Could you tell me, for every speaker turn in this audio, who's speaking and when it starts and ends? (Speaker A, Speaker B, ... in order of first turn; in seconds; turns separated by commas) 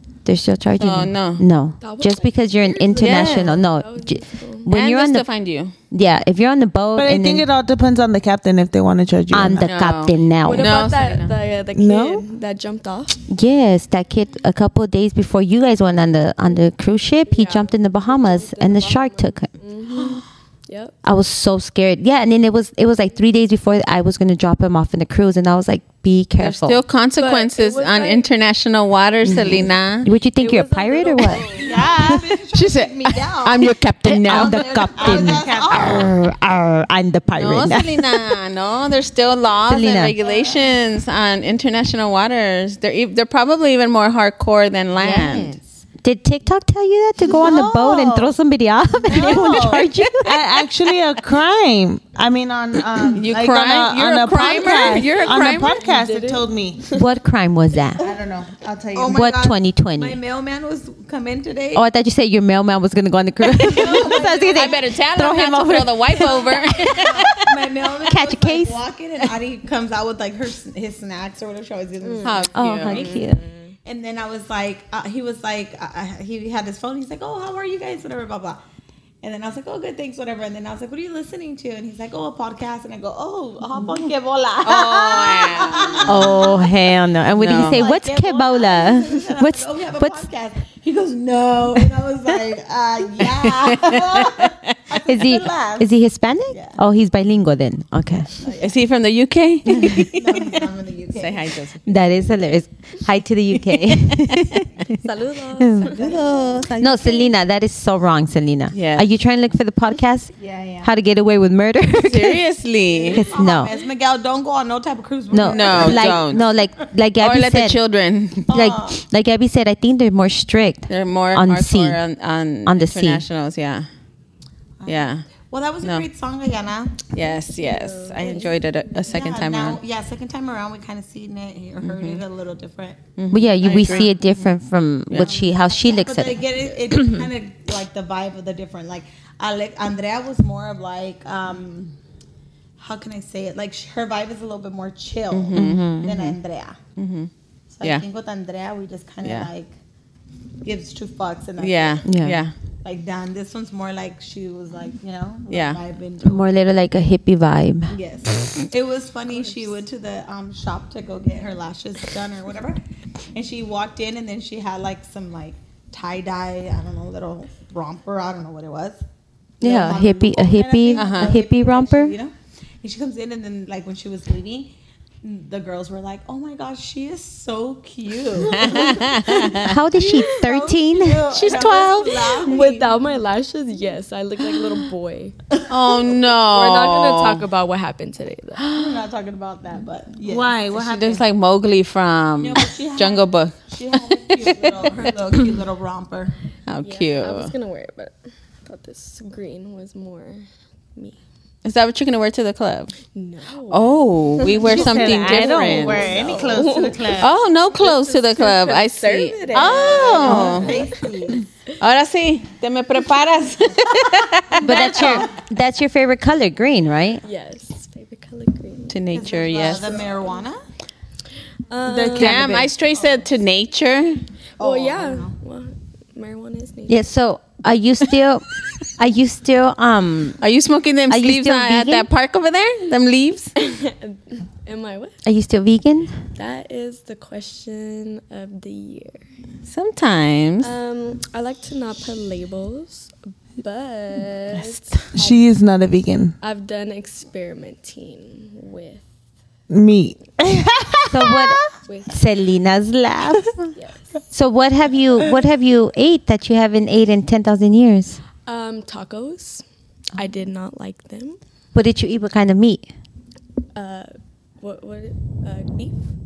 Speaker A: 0.2-5.2, Speaker B: 0.8-1.4, Speaker C: 1.8-4.7, Speaker B: 3.0-3.5, Speaker B: 4.7-5.7, Speaker A: 5.9-7.5, Speaker D: 7.0-9.7, Speaker A: 9.3-10.7, Speaker B: 9.6-11.3, Speaker C: 10.4-13.2, Speaker D: 11.8-12.2, Speaker A: 13.3-19.5, Speaker C: 17.2-21.0, Speaker A: 21.0-26.8, Speaker B: 26.4-30.1, Speaker C: 27.2-28.2, Speaker A: 29.2-31.5, Speaker C: 30.4-31.7, Speaker E: 31.5-33.7, Speaker D: 31.6-32.2, Speaker B: 32.5-34.6, Speaker A: 34.0-38.2, Speaker E: 34.2-36.1, Speaker D: 35.0-36.1, Speaker B: 37.4-45.5, Speaker A: 39.7-40.1, Speaker E: 40.2-40.6, Speaker A: 45.0-50.4, Speaker D: 47.2-48.3, Speaker E: 49.1-49.8, Speaker D: 49.1-56.8, Speaker B: 53.1-55.8, Speaker C: 55.4-57.1, Speaker A: 56.9-58.0, Speaker D: 58.0-59.1, Speaker E: 58.9-61.8, Speaker A: 59.0-60.2, Speaker A: 61.7-69.3, Speaker E: 63.5-64.7, Speaker B: 64.5-67.3, Speaker E: 66.9-72.4, Speaker C: 72.0-73.7, Speaker B: 72.2-73.0, Speaker A: 72.5-73.4, Speaker E: 73.8-78.6, Speaker E: 79.2-86.7, Speaker B: 84.6-86.4, Speaker A: 86.0-90.2, Speaker B: 87.3-87.8, Speaker E: 87.4-95.9, Speaker B: 93.7-94.7, Speaker A: 95.0-98.3, Speaker E: 96.5-96.8, Speaker B: 98.6-100.5, Speaker A: 99.8-100.1, Speaker E: 100.0-101.5, Speaker B: 101.1-102.0, Speaker A: 101.8-105.0, Speaker B: 104.0-104.5, Speaker C: 105.0-106.4, Speaker A: 105.6-105.9, Speaker E: 105.8-106.8, Speaker B: 106.3-107.0, Speaker A: 106.8-112.4, Speaker B: 108.7-109.0, Speaker E: 110.4-110.9, Speaker B: 112.0-113.2, Speaker E: 112.9-116.6, Speaker A: 113.1-113.7, Speaker A: 115.3-117.8, Speaker B: 115.4-116.4, Speaker B: 117.2-118.5, Speaker E: 118.5-119.0, Speaker A: 118.5-122.0, Speaker B: 120.9-123.9, Speaker A: 122.6-123.2, Speaker E: 124.8-127.0, Speaker B: 124.8-125.3, Speaker B: 125.8-126.1, Speaker B: 127.1-129.8, Speaker C: 127.2-129.2, Speaker E: 128.2-133.0, Speaker B: 131.8-132.2, Speaker B: 133.2-134.1, Speaker A: 133.3-137.2, Speaker E: 133.6-134.1, Speaker B: 135.1-135.3, Speaker E: 135.2-141.9, Speaker E: 142.8-146.8, Speaker B: 145.3-146.3, Speaker A: 145.5-146.1, Speaker B: 146.9-147.3, Speaker E: 147.7-149.7, Speaker B: 149.2-149.5, Speaker E: 150.6-152.1, Speaker B: 151.6-152.5, Speaker A: 152.0-152.4, Speaker E: 152.8-156.4, Speaker B: 155.5-155.8, Speaker A: 156.2-157.9, Speaker E: 157.9-162.8, Speaker E: 163.3-169.0, Speaker E: 169.6-182.9, Speaker A: 169.6-172.2, Speaker B: 170.9-171.3, Speaker B: 178.4-179.7, Speaker A: 179.6-181.6, Speaker B: 181.3-182.5, Speaker C: 182.4-185.3, Speaker B: 185.7-187.4, Speaker C: 186.4-188.7, Speaker E: 188.7-190.7, Speaker D: 190.3-191.2, Speaker B: 190.7-193.6, Speaker E: 192.4-196.3, Speaker B: 194.4-194.6, Speaker B: 196.7-197.5, Speaker C: 196.8-201.2, Speaker B: 201.6-202.9, Speaker C: 203.1-203.9, Speaker B: 203.7-206.1, Speaker C: 204.5-211.1, Speaker D: 204.6-207.3, Speaker E: 206.0-206.6, Speaker B: 207.2-210.7, Speaker E: 209.6-211.4, Speaker B: 211.8-215.2, Speaker A: 214.6-217.2, Speaker E: 214.7-215.3, Speaker C: 217.2-219.0, Speaker B: 218.9-219.9, Speaker E: 219.1-220.6, Speaker C: 219.7-220.4, Speaker C: 221.7-222.6, Speaker D: 221.8-222.7, Speaker B: 222.2-224.2, Speaker E: 224.6-225.3, Speaker C: 224.6-227.0, Speaker A: 226.9-228.4, Speaker A: 229.0-230.4, Speaker B: 230.4-233.5, Speaker A: 231.1-232.1, Speaker C: 233.6-235.2, Speaker A: 235.2-236.1, Speaker C: 236.3-239.2, Speaker B: 239.7-240.7, Speaker C: 240.6-245.4, Speaker B: 244.5-245.0, Speaker D: 245.1-246.3, Speaker C: 246.4-249.0, Speaker D: 249.7-251.7, Speaker A: 251.1-253.7, Speaker C: 251.9-252.2, Speaker C: 253.7-254.1, Speaker A: 254.3-258.2, Speaker C: 258.4-259.6, Speaker C: 260.1-261.4, Speaker A: 261.7-262.9, Speaker C: 263.7-266.0